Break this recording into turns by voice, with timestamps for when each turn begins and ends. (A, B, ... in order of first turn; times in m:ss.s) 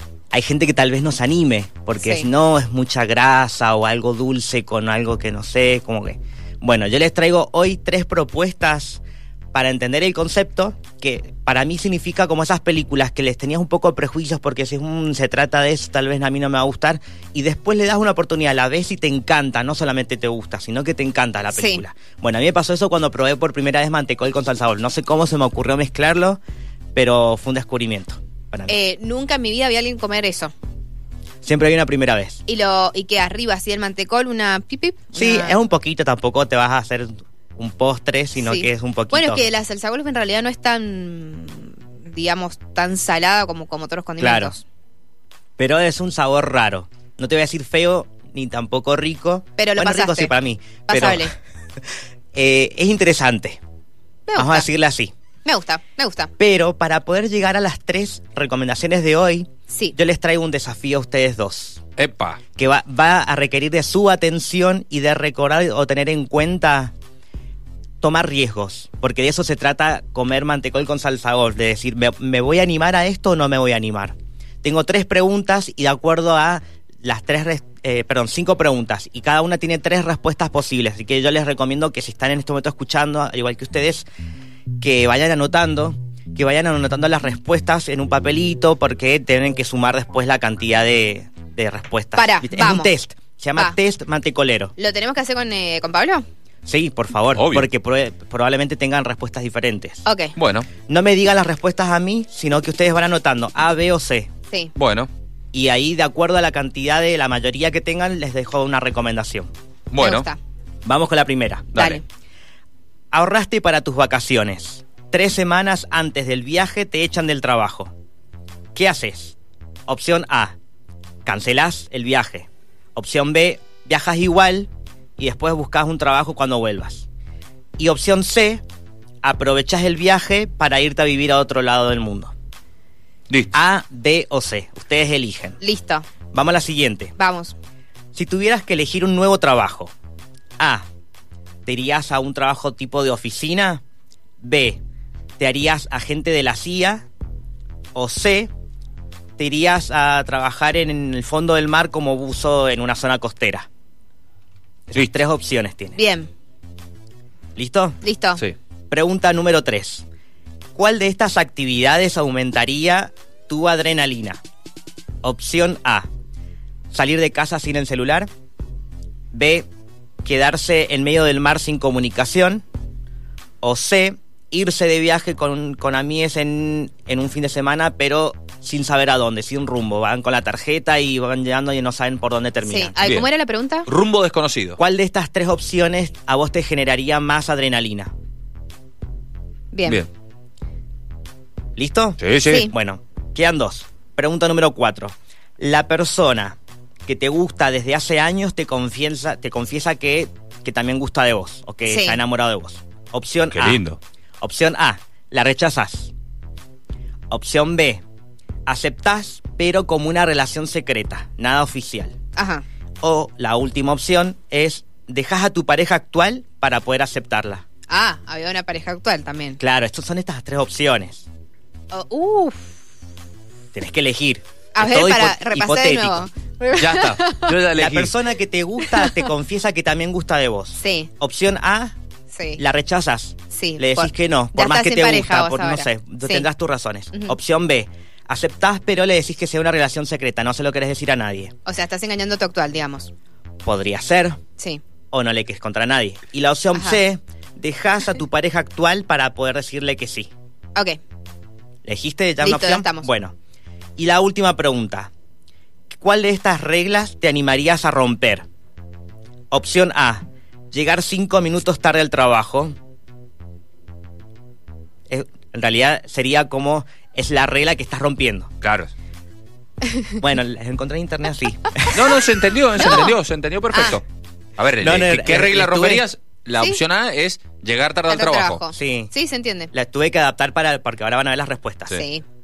0:00.3-0:09.0 A
0:02.0-0:02.3 B
0:09.5-0:26.4 A
0:21.5-0:21.8 B
0:27.0-0:28.8 A
0:28.7-0:30.5 B
0:31.4-0:32.4 A
0:32.5-0:35.6 B
0:35.1-0:39.5 A
0:38.4-0:44.6 B
0:44.2-0:44.6 A
0:45.6-0:51.3 A
0:49.6-0:50.3 B
0:50.9-0:51.3 B
0:52.3-0:53.6 A
0:54.3-0:54.7 B
0:54.4-0:55.1 A
0:55.4-0:56.3 B
0:56.4-1:01.8 A
0:59.7-1:00.0 B
1:02.0-1:02.4 C
1:02.6-1:06.9 A
1:08.0-1:24.1 A
1:24.8-1:34.7 A
1:32.2-1:32.9 B
1:34.8-1:36.2 B
1:36.7-1:40.0 A
1:37.4-1:37.7 C
1:40.0-1:40.3 B
1:40.4-1:40.7 C
1:40.9-1:44.3 A
1:44.8-1:45.1 C
1:45.5-1:49.5 A
1:49.9-1:50.3 C
1:50.0-1:50.4 B
1:50.8-1:51.8 A
1:51.7-1:52.0 C
1:51.8-1:52.0 B
1:53.1-1:57.9 A
1:58.8-1:59.4 A
1:59.9-2:00.6 A
2:01.2-2:07.1 A
2:07.8-2:08.6 A
2:09.2-2:12.3 A
2:13.5-2:15.6 A
2:15.6-2:16.1 B
2:16.3-2:17.1 A
2:17.2-2:17.6 B
2:18.1-2:19.9 A
2:20.6-2:20.8 A
2:21.7-2:23.8 A
2:24.4-2:24.8 A
2:25.4-2:27.1 A
2:28.0-2:28.5 A
2:29.4-2:33.7 A
2:34.9-2:36.0 A
2:36.0-2:36.3 B
2:37.6-2:38.0 A
2:38.0-2:38.4 B
2:38.9-2:40.0 A
2:40.8-2:44.4 A
2:45.2-2:46.1 A
2:46.9-2:48.3 A
2:49.3-2:49.7 A
2:50.2-2:52.6 A
2:53.6-3:03.0 A
3:02.6-3:03.9 B
3:03.9-3:04.8 C
3:04.8-3:08.1 A
3:09.7-3:10.0 B
3:11.8-3:23.8 A
3:12.2-3:12.7 C
3:12.5-3:12.7 B
3:21.9-3:22.2 B
3:23.5-3:24.0 C
3:24.4-3:26.1 A
3:27.3-3:28.0 A
3:28.7-3:32.1 A
3:32.4-3:32.6 B
3:33.0-3:37.6 A
3:37.9-3:39.6 B
3:39.6-3:41.3 A
3:41.9-3:42.7 B
3:43.7-3:46.3 A
3:44.8-3:47.5 B
3:46.7-3:48.1 C
3:47.8-3:52.0 A
3:48.8-3:49.3 B
3:50.8-3:51.1 B
3:52.3-3:52.6 B
3:52.6-4:01.5 A
3:53.5-3:56.5 B
4:01.6-4:03.1 B
4:03.6-4:04.4 A
4:05.1-4:10.3 A
4:06.7-4:07.0 B
4:10.8-4:11.0 B
4:11.8-4:13.4 A
4:12.4-4:13.1 B
4:14.0-4:15.1 A
4:15.9-4:18.4 A
4:19.5-4:22.8 A
4:25.1-4:28.5 A
4:28.6-4:28.9 C
4:30.2-4:32.2 A
4:31.9-4:34.0 C
4:32.8-4:33.1 B
4:33.7-4:34.0 B
4:34.6-4:38.6 C
4:34.8-4:36.0 A
4:38.1-4:39.7 B
4:38.7-4:39.1 A
4:39.7-4:42.0 A
4:41.9-4:42.2 B